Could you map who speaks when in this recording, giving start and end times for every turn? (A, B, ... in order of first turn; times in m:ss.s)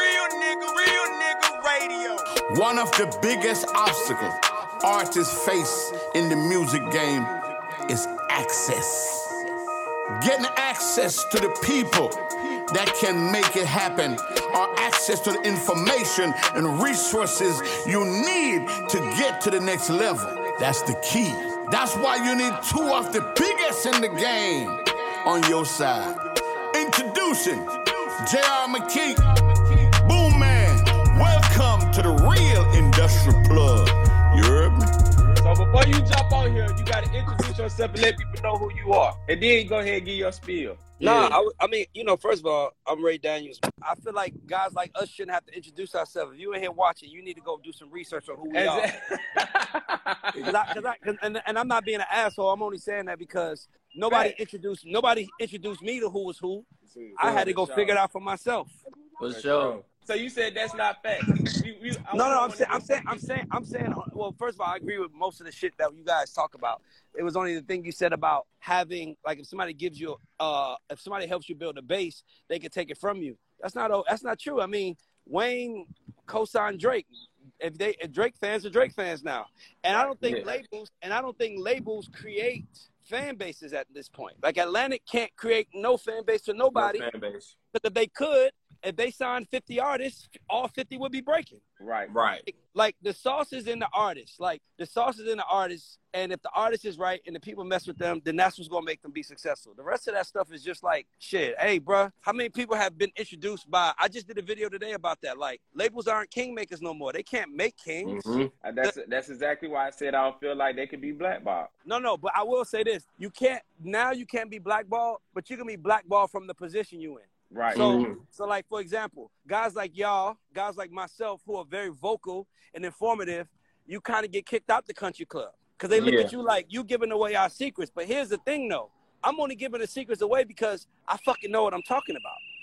0:02.5-0:09.4 A
0:10.2-0:34.9 A
0:35.4-0:40.9 B
0:41.0-0:41.4 C
0:41.0-0:48.9 D
0:48.5-0:50.7 B
0:50.3-0:50.7 C
0:50.5-0:56.7 D
0:54.1-0:54.4 B
0:56.8-0:58.0 B
0:57.2-0:58.8 D
0:59.2-0:59.8 C
0:59.2-1:03.2 B
1:02.1-1:17.1 D
1:17.6-1:27.1 D
1:19.9-1:20.5 B
1:20.2-1:20.6 C
1:26.7-1:27.5 C
1:27.7-1:31.6 D
1:31.8-1:32.1 B
1:32.1-1:32.5 C
1:32.4-1:49.0 D
1:48.0-1:48.5 C
1:48.6-1:51.7 B
1:51.8-2:12.4 D
1:57.5-1:57.9 B
1:57.7-1:58.2 C
2:05.9-2:06.3 C